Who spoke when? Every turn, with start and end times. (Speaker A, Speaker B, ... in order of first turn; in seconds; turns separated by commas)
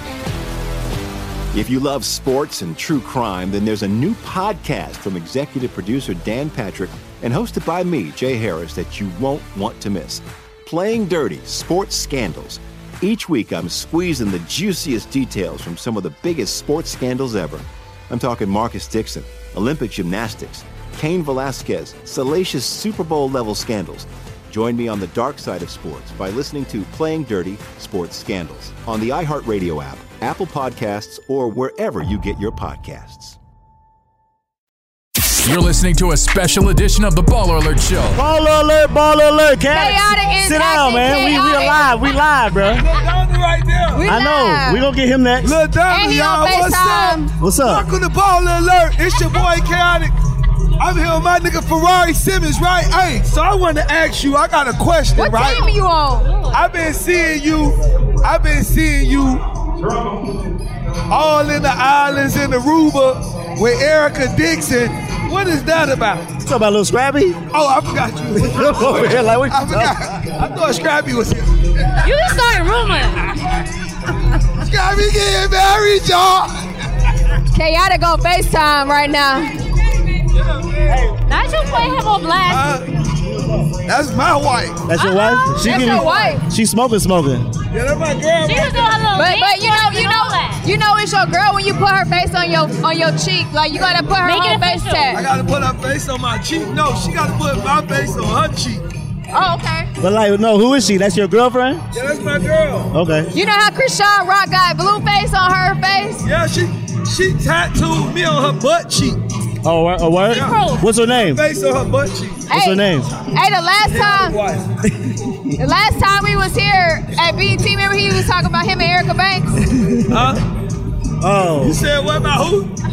Speaker A: 1.5-33.4, Speaker B: 35.4-38.1, Speaker C: 38.1-42.9, Speaker D: 39.7-42.0, Speaker E: 42.6-44.1, Speaker D: 43.9-44.8, Speaker C: 44.0-45.6, Speaker E: 45.4-50.1, Speaker D: 45.9-47.3, Speaker C: 47.4-47.9, Speaker E: 50.8-55.7, Speaker D: 55.1-56.4, Speaker F: 56.2-56.6, Speaker E: 56.5-59.4, Speaker E: 61.1-66.3, Speaker C: 66.4-67.4, Speaker E: 67.5-71.6, Speaker C: 68.3-70.2, Speaker F: 72.0-73.2, Speaker E: 74.6-76.5, Speaker D: 77.5-79.5, Speaker E: 80.3-81.0, Speaker F: 81.2-82.7, Speaker E: 82.4-82.9, Speaker E: 83.8-84.8, Speaker C: 84.8-87.5, Speaker D: 85.5-86.4, Speaker E: 87.7-89.0, Speaker F: 88.4-90.6, Speaker D: 89.1-95.2, Speaker F: 94.2-95.1, Speaker E: 95.1-98.8, Speaker D: 99.3-99.9, Speaker C: 100.0-101.8, Speaker E: 101.9-102.9, Speaker C: 102.9-103.3, Speaker D: 103.3-106.2, Speaker E: 106.2-109.2, Speaker C: 109.6-111.4, Speaker E: 110.3-110.6, Speaker F: 110.3-110.8, Speaker E: 111.2-112.5, Speaker C: 112.5-113.1, Speaker D: 112.5-114.4, Speaker E: 113.8-114.7, Speaker C: 115.1-115.5, Speaker D: 115.6-119.5, Speaker C: 119.7-120.3, Speaker E: 120.1-120.4, Speaker C: 121.2-121.8, Speaker E: 121.6-122.7